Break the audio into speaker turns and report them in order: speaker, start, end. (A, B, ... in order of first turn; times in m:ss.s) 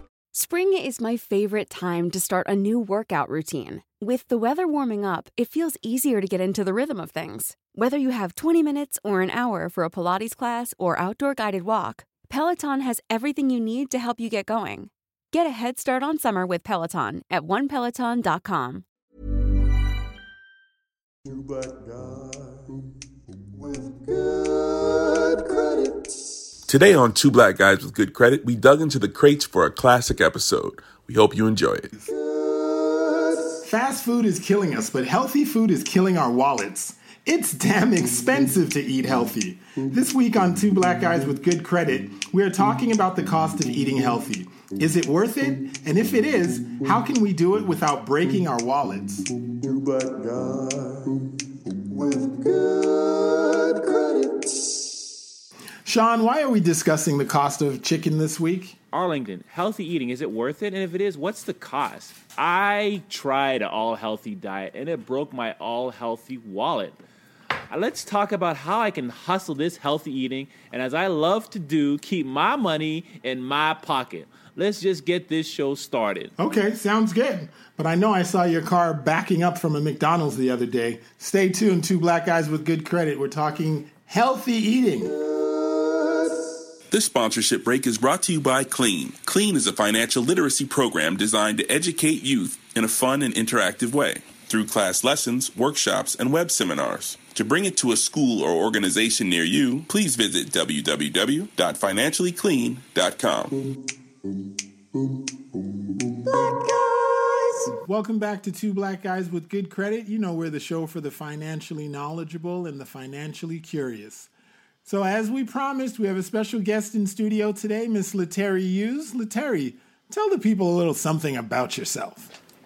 0:00.3-0:18.8 A
0:21.2-0:26.2 B
0:26.7-0:31.9 C
0:32.0-0:33.5 B
0:33.6-0:49.2 D
0:49.2-0:54.9 B
0:55.8-0:58.8 D
0:58.9-1:07.0 E
1:07.7-1:16.3 E
1:16.4-1:25.1 D
1:25.3-1:26.3 B
1:26.9-1:43.5 C
1:44.9-1:47.7 B
1:47.8-1:54.3 D
1:54.8-2:02.3 D